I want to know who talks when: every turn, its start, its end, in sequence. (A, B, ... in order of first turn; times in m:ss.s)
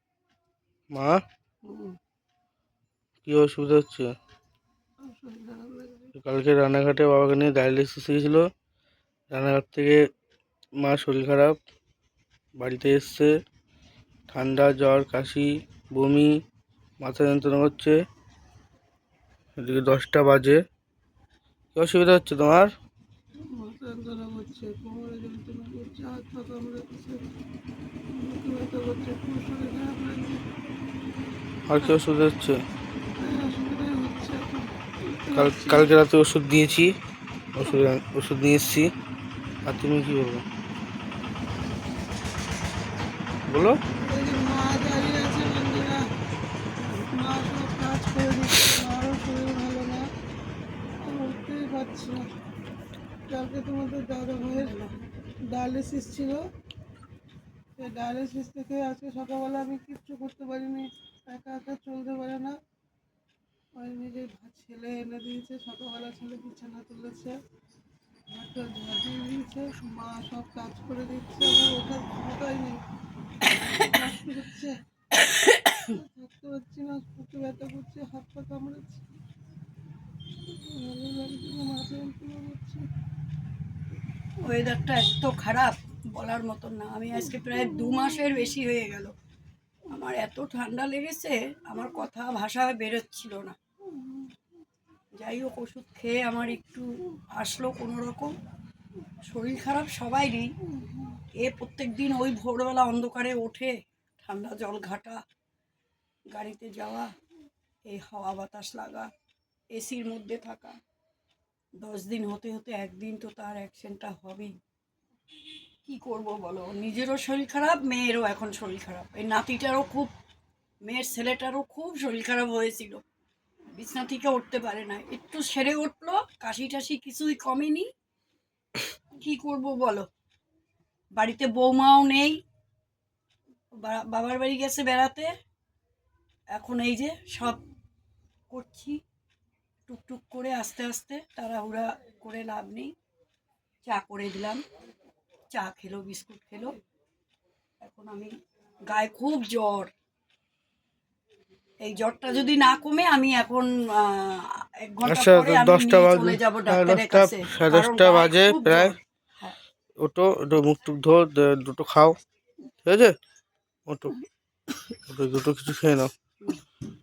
0:00.9-0:01.2 A
0:01.6-0:01.9 B
0:03.2-0:04.1 A
0:05.0-0:06.1 B
0:06.2-0:08.5 A
0:09.3-0:10.0 A
0:10.8-0:11.6 A
0:12.6-0:13.3 A
0:14.3-0:16.4 A
0:17.0-0:18.0 A
0:19.6-0:20.6 A
0:21.7-0:22.7 A
0:23.5-0:27.2 B
0:28.1-0:30.4 B
0:31.7-0:32.6 A
0:33.2-0:35.9 B
0:35.4-0:37.0 A
0:37.6-0:38.9 A
0:39.7-0:40.4 A
0:43.5-0:43.8 A
0:44.0-0:46.0 B
0:46.8-0:47.1 C
0:47.1-0:50.0 B
0:51.0-0:52.3 B
0:53.3-0:54.8 B
0:54.5-0:55.0 C
0:55.5-0:56.4 B
0:57.8-1:02.6 B
1:03.8-1:07.4 B
1:08.3-1:12.8 B
1:13.8-1:14.8 B
1:15.9-1:19.1 B
1:20.5-1:22.9 B
1:24.4-1:29.1 C
1:29.9-1:33.6 C
1:35.2-1:38.3 C
1:39.3-1:40.5 C
1:41.4-1:45.2 C
1:46.3-1:47.1 C
1:47.9-1:49.1 C
1:49.7-1:50.8 C
1:51.8-1:54.5 C
1:55.9-2:00.1 C
2:00.8-2:03.0 C
2:03.8-2:07.9 C
2:09.2-2:10.1 C
2:11.2-2:12.4 C
2:13.8-2:15.3 C
2:16.5-2:17.6 C
2:18.5-2:19.0 C
2:19.9-2:22.9 C
2:23.8-2:24.6 C
2:25.5-2:26.7 C
2:27.8-2:28.3 C
2:28.9-2:29.9 C
2:31.8-2:39.6 C
2:35.0-2:38.9 A
2:40.0-2:42.2 A
2:42.8-2:43.2 A
2:43.9-2:44.2 A
2:45.0-2:46.1 A